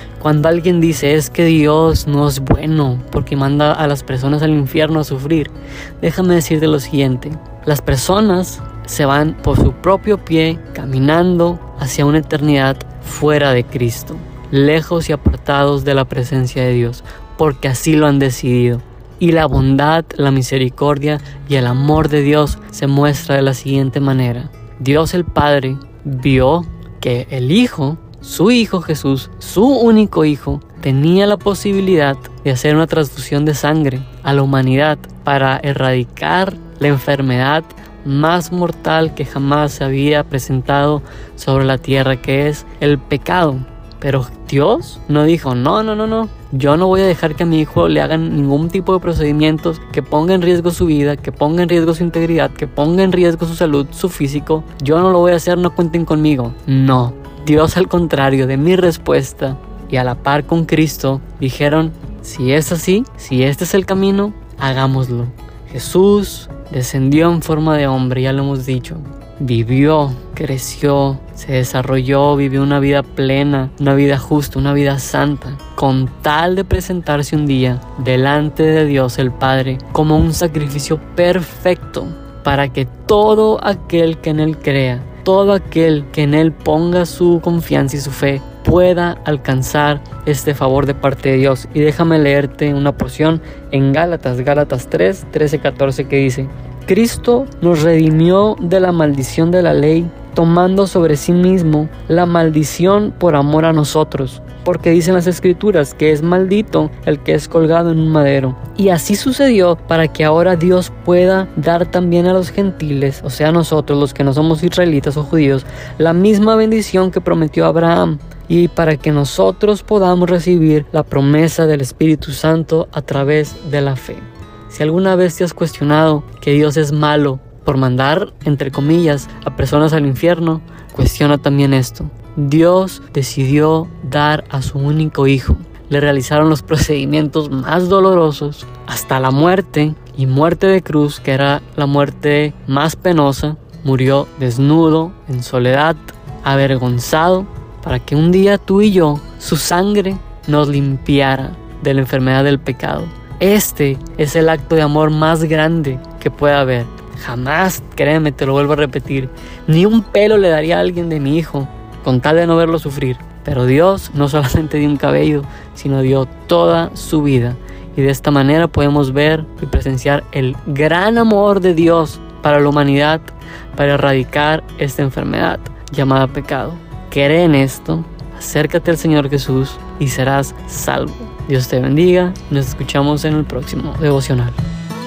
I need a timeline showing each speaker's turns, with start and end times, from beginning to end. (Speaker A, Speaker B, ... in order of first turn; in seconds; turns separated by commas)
Speaker A: 0.2-184.6